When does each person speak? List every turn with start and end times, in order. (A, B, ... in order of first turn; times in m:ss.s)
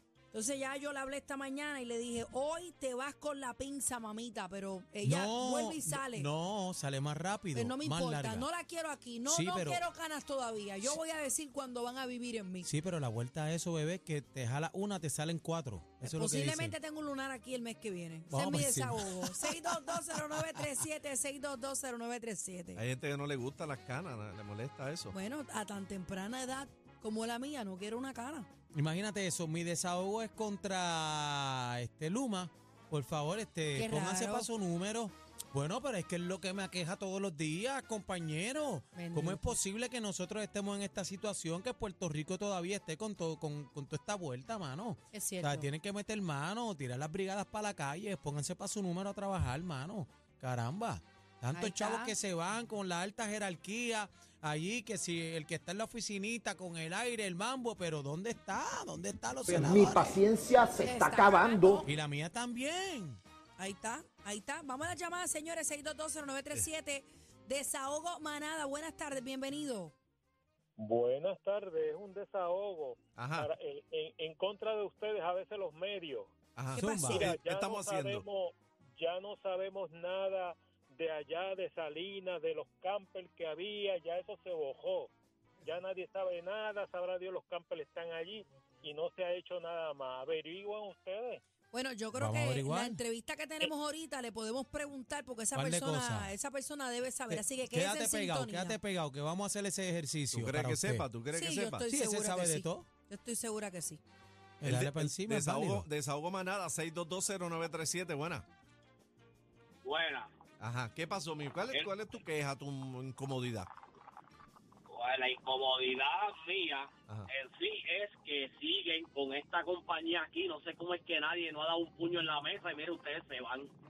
0:00.3-0:06.3 A
0:05.0-0:08.5 B
0:07.5-0:12.7 A
0:09.3-0:09.8 B
0:12.6-0:16.7 B
0:16.0-0:22.8 A
0:18.3-0:20.8 B
0:22.8-0:25.1 C
0:25.1-0:28.5 A
0:28.7-1:00.2 B
0:33.8-0:34.5 A
0:38.9-0:39.6 A
0:45.1-0:45.6 A
0:51.5-0:52.1 A
0:59.5-1:01.8 D
1:00.8-1:01.9 A
1:01.8-1:03.2 B
1:03.6-1:09.9 A
1:10.8-1:16.3 E
1:13.1-1:13.5 C
1:16.5-1:18.2 C
1:16.7-1:17.2 A
1:16.8-1:17.2 B
1:16.9-1:25.1 E
1:25.6-1:31.4 E
1:31.7-1:38.8 A
1:32.1-1:33.0 B
1:35.5-1:36.3 B
1:37.3-1:41.0 B
1:40.3-1:41.9 C
1:41.3-1:44.0 A
1:41.9-1:42.8 B
1:44.6-1:45.8 B
1:44.6-1:48.4 C
1:49.8-1:50.3 F
1:50.6-1:53.7 C
1:54.9-2:03.7 F